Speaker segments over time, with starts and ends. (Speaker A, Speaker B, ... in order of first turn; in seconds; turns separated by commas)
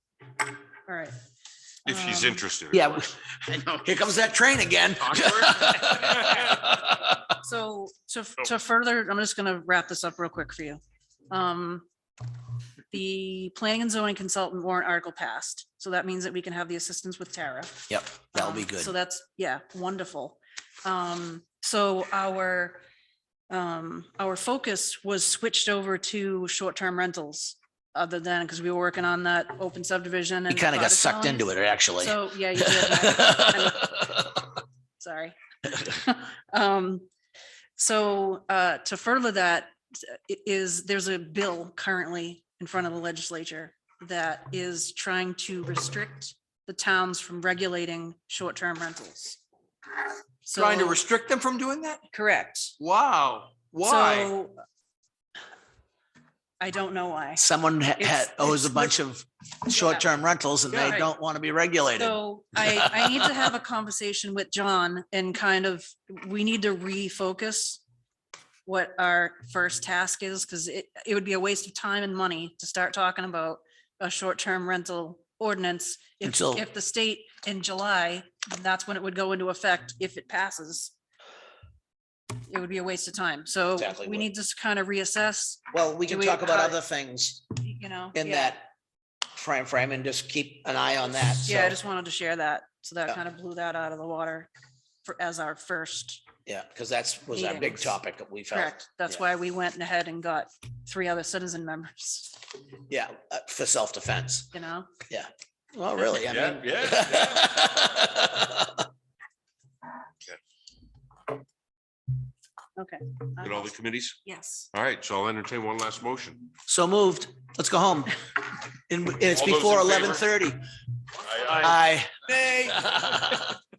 Speaker A: 0.9-1.1, Speaker B: 1.9-3.1, Speaker A: 1.9-2.4, Speaker C: 2.7-7.2, Speaker B: 5.1-6.4, Speaker A: 7.4-11.9, Speaker A: 12.9-22.8, Speaker C: 17.9-18.9, Speaker A: 23.5-34.0, Speaker C: 30.5-34.2, Speaker A: 35.0-37.1, Speaker A: 37.8-49.4, Speaker A: 50.5-51.0, Speaker D: 50.5-52.0, Speaker A: 52.1-52.7, Speaker D: 52.8-54.3, Speaker A: 53.8-54.6, Speaker A: 56.6-57.4, Speaker C: 57.4-63.4, Speaker A: 58.0-58.9, Speaker A: 59.7-60.0, Speaker D: 60.7-61.0, Speaker A: 62.0-67.8, Speaker A: 68.7-80.9, Speaker C: 76.2-76.6, Speaker A: 82.5-86.8, Speaker C: 83.8-84.3, Speaker C: 85.7-87.5, Speaker A: 87.6-88.6, Speaker C: 88.1-88.7, Speaker C: 89.3-91.8, Speaker A: 91.5-94.5, Speaker A: 95.0-96.2, Speaker C: 96.5-99.2, Speaker A: 97.3-98.0, Speaker A: 98.5-102.4, Speaker C: 102.9-104.5, Speaker A: 104.5-104.9, Speaker C: 105.1-108.8, Speaker B: 106.3-107.6, Speaker A: 112.8-113.7, Speaker B: 113.4-114.2, Speaker A: 114.2-114.7, Speaker B: 114.7-116.5, Speaker C: 116.7-118.2, Speaker C: 118.9-120.6, Speaker B: 119.3-120.2, Speaker B: 121.2-121.7, Speaker D: 121.4-123.0, Speaker C: 121.6-122.1, Speaker C: 122.7-123.4